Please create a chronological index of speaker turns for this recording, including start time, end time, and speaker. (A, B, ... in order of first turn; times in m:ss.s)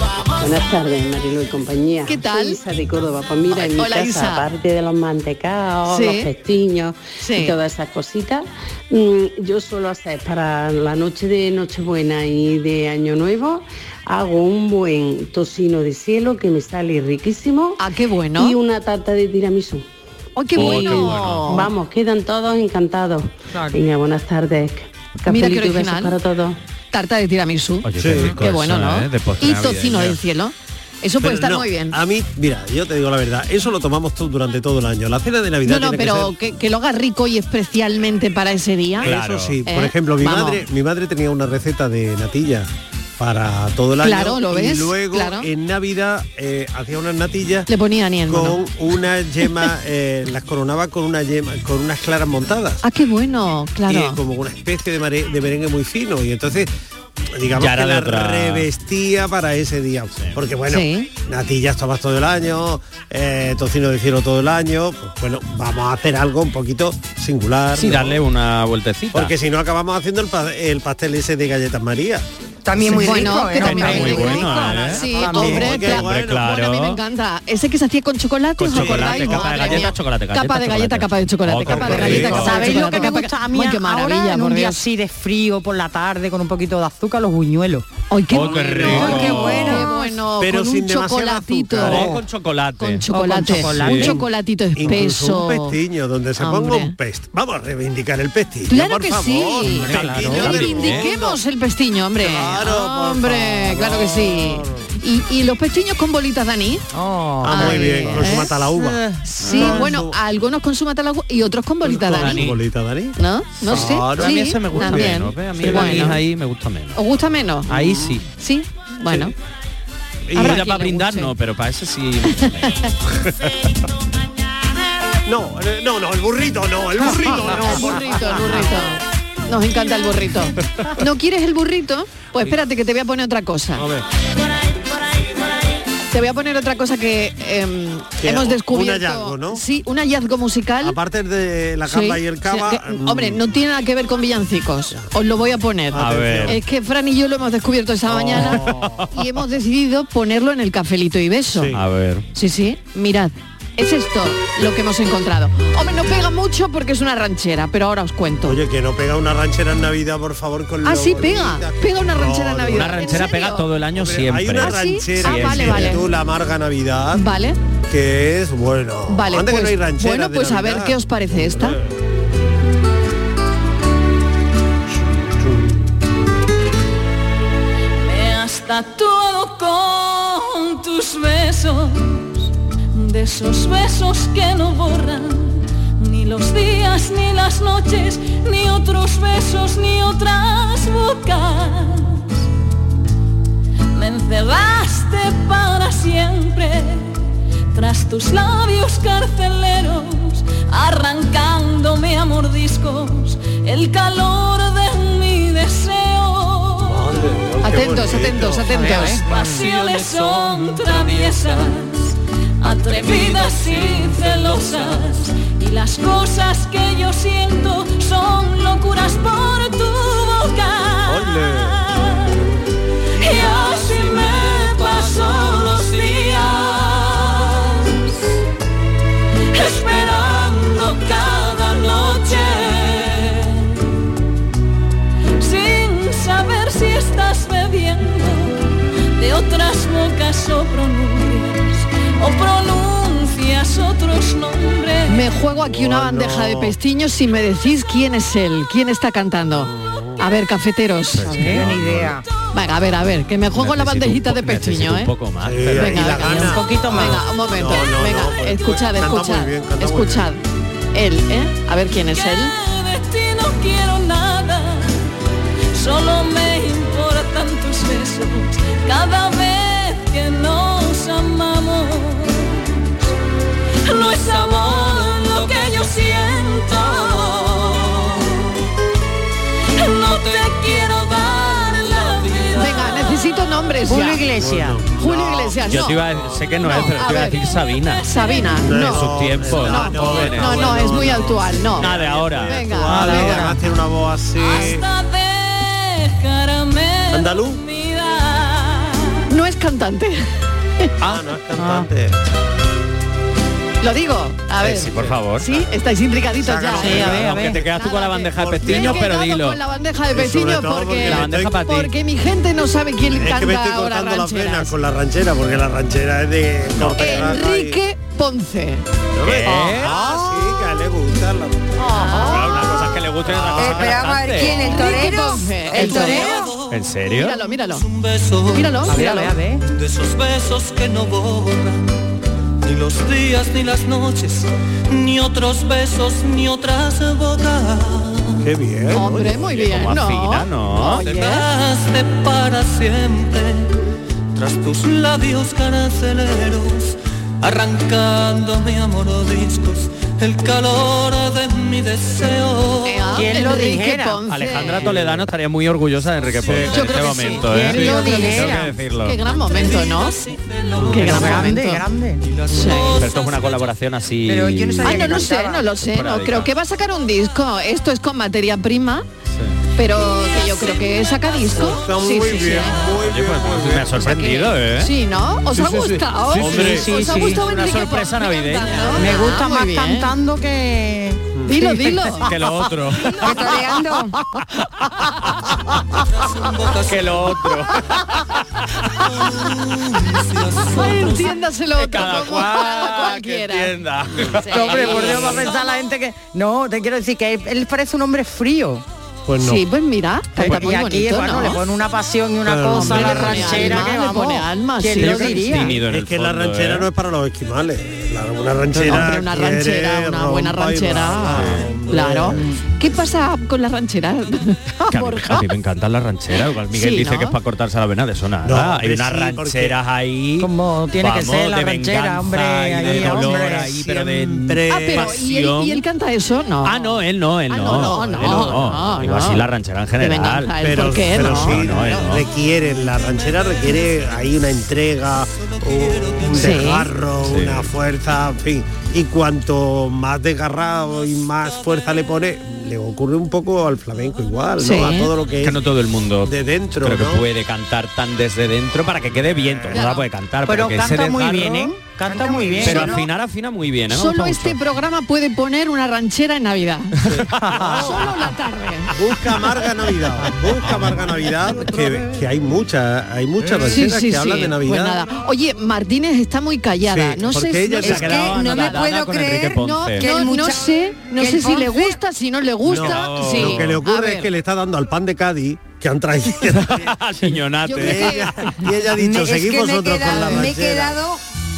0:00.4-0:17.8 A
0:02.1-0:02.6 B
0:03.5-0:04.4 B
0:05.9-0:06.3 B
0:07.2-0:07.6 B
0:17.8-0:18.6 B
0:18.4-0:19.9 A
0:20.4-0:21.7 B
0:20.5-0:21.6 C
0:20.6-0:26.6 A
0:23.5-0:23.8 D
0:25.3-0:26.2 B
0:26.9-0:32.0 B
0:27.8-0:30.2 C
0:28.0-0:28.4 E
0:31.2-0:36.3 E
0:35.7-0:39.1 B
0:39.0-0:39.6 C
0:39.0-0:47.7 E
0:39.7-0:40.6 B
0:44.0-0:45.5 B
0:47.7-0:48.6 B
0:48.3-0:52.8 E
0:52.8-0:54.2 B
0:53.9-0:56.7 E
0:57.3-1:08.2 E
0:57.6-0:58.7 C
1:00.7-1:01.1 B
1:07.8-1:09.3 C
1:09.1-1:12.3 E
1:12.6-1:14.9 F
1:12.8-1:24.8 B
1:13.5-1:17.0 C
1:13.5-1:15.8 D
1:14.5-1:16.6 E
1:18.6-1:23.0 C
1:18.7-1:20.0 E
1:21.7-1:22.6 E
1:22.2-1:27.9 D
1:28.1-1:32.2 B
1:28.3-1:29.9 C
1:28.7-1:32.2 E
1:28.8-1:30.0 F
1:31.8-1:34.2 C
1:32.8-1:35.8 B
1:33.1-1:34.2 D
1:34.8-1:41.4 E
1:36.4-1:37.0 B
1:38.7-1:46.9 B
1:39.7-1:41.1 C
1:39.9-1:40.4 D
1:42.2-1:44.9 E
1:46.9-1:48.0 D
1:47.4-1:48.6 B
1:47.4-1:50.2 E
1:48.2-1:49.9 C
1:49.2-1:52.5 B
1:51.8-1:56.2 E
1:52.1-1:52.6 C
1:53.2-1:56.2 B
1:53.6-1:57.0 C
1:57.0-1:57.7 B
1:57.7-1:58.2 C
1:57.7-1:58.2 E
1:58.4-1:59.3 B
2:00.3-2:00.6 E
2:00.4-2:03.3 C
2:00.4-2:01.3 B
2:02.3-2:02.9 B
2:05.3-2:08.8 E
2:07.0-2:13.9 B
2:13.8-2:14.0 E
2:16.1-2:21.0 B
2:18.2-2:19.6 E
2:20.8-2:23.5 E
2:21.9-2:31.8 B
2:25.9-2:26.6 E
2:26.0-2:26.6 C
2:28.1-2:29.0 E
2:28.4-2:29.0 C
2:31.6-2:31.8 E
2:31.7-2:32.2 C
2:32.3-2:38.6 B
2:38.4-2:43.2 E
2:40.8-2:43.7 B
2:42.7-2:46.0 C
2:44.0-2:47.3 E
2:44.6-2:46.0 B
2:47.2-2:47.6 B
2:47.9-2:52.0 E
2:49.1-2:51.8 B
2:54.9-2:56.0 E
2:58.0-3:12.5 G
3:13.9-3:27.1 G
3:26.8-3:28.8 E
3:27.6-3:29.2 B
3:28.7-3:29.2 D
3:29.2-3:31.8 H
3:29.2-3:42.5 G
3:32.8-3:35.2 H
3:43.2-3:48.1 G
3:49.5-3:53.8 G
3:55.4-4:05.2 G
4:05.1-4:11.4 B
4:05.6-4:06.8 E
4:09.6-4:10.2 E
4:11.2-4:12.1 C
4:11.2-4:11.6 D
4:11.5-4:12.2 F
4:12.5-4:15.1 B
4:13.5-4:16.1 C
4:15.4-4:20.3 E
4:15.7-4:20.4 B
4:16.1-4:17.2 D
4:20.9-4:22.5 B
4:22.1-4:25.1 G
4:25.7-4:33.1 G
4:33.8-4:38.5 G
4:39.7-4:43.2 G
4:41.9-4:42.5 H
4:42.6-4:44.3 B
4:43.9-4:44.8 D
4:44.4-4:46.2 E
4:45.0-4:46.0 B
4:45.7-4:48.1 C
4:46.6-4:47.4 B
4:47.9-4:48.6 G
4:48.0-4:53.5 B
4:48.6-4:54.8 E
4:48.7-4:53.0 C
4:52.9-4:53.6 D
4:54.4-4:59.2 G
4:57.1-4:57.6 E
4:59.3-5:00.3 B
5:01.0-5:02.2 E
5:01.6-5:01.9 D
5:03.8-5:14.7 B
5:04.6-5:05.5 C
5:04.9-5:05.2 E
5:06.4-5:07.6 E
5:06.8-5:07.6 D
5:06.9-5:09.6 C
5:08.4-5:09.1 E
5:10.1-5:11.6 E
5:11.0-5:11.9 C
5:13.1-5:17.8 E
5:16.8-5:17.3 C
5:16.9-5:18.8 B
5:19.2-5:23.9 E
5:19.2-5:20.0 C
5:19.8-5:20.3 D
5:21.8-5:22.7 B
5:22.2-5:24.8 C
5:23.6-5:26.5 F
5:24.4-5:26.5 B
5:25.8-5:26.9 H
5:26.7-5:27.4 C
5:27.1-5:27.8 B
5:27.5-5:31.9 H
5:28.5-5:29.3 B
5:28.9-5:29.6 D
5:32.6-5:38.5 H
5:38.4-5:39.4 E
5:38.9-5:41.5 B
5:39.2-5:41.0 C
5:41.0-5:43.7 H
5:44.3-5:53.4 H
5:52.8-5:55.0 B
5:53.1-5:54.2 D
5:54.3-5:59.2 C
5:56.7-6:00.2 B
5:57.4-5:58.7 D
5:59.6-6:01.6 H
6:00.9-6:01.1 E
6:00.9-6:01.8 B
6:01.0-6:02.2 D
6:02.2-6:03.7 H
6:02.5-6:03.0 B
6:02.9-6:06.5 C
6:04.3-6:05.6 F
6:04.8-6:09.1 B
6:09.8-6:12.9 B
6:11.6-6:14.0 E
6:13.0-6:14.9 C
6:13.9-6:20.1 B
6:15.6-6:19.1 C
6:16.6-6:17.6 D
6:18.9-6:21.3 D
6:21.3-6:22.0 E
6:21.4-6:22.3 B
6:22.2-6:23.2 C
6:23.2-6:24.2 F
6:26.2-6:27.6 H
6:26.8-6:27.9 C
6:29.0-6:31.4 H
6:30.7-6:33.8 B
6:31.8-6:35.5 C
6:34.4-6:35.5 B
6:34.5-6:38.8 D
6:39.3-6:39.6 E
6:39.4-6:41.6 B
6:40.4-6:45.8 D
6:42.4-6:43.9 E
6:42.7-6:45.7 B
6:45.0-6:46.9 C
6:45.8-6:52.5 E
6:48.8-6:55.5 B
6:51.3-6:51.7 C
6:54.9-7:05.8 C
6:56.7-6:57.4 B
6:58.4-6:59.8 E
7:00.4-7:03.7 D
7:02.9-7:05.2 E
7:04.7-7:07.0 B
7:06.6-7:10.6 C
7:07.5-7:09.5 B
7:08.0-7:08.7 E
7:10.0-7:11.7 B
7:10.6-7:25.6 E
7:11.1-7:12.3 C
7:15.4-7:16.6 H
7:16.4-7:16.9 B
7:17.2-7:17.7 C
7:24.6-7:25.1 B
7:25.4-7:31.8 C
7:26.2-7:27.3 E
7:29.4-7:29.8 E
7:29.7-7:30.0 B
7:30.4-7:33.0 D
7:32.0-7:33.1 F
7:32.6-7:34.6 C
7:33.9-7:37.0 B
7:37.0-7:38.1 E
7:37.6-7:39.0 B
7:39.0-7:45.0 E
7:43.6-7:48.9 B
7:46.8-7:48.4 E
7:47.8-7:50.1 C
7:47.9-7:52.0 F
7:49.6-7:54.3 B
7:52.7-7:53.8 C
7:52.7-7:56.9 E
7:56.4-7:58.2 C
7:57.6-7:58.6 B
7:57.7-8:01.0 E
7:59.0-8:01.2 F
8:00.1-8:00.5 B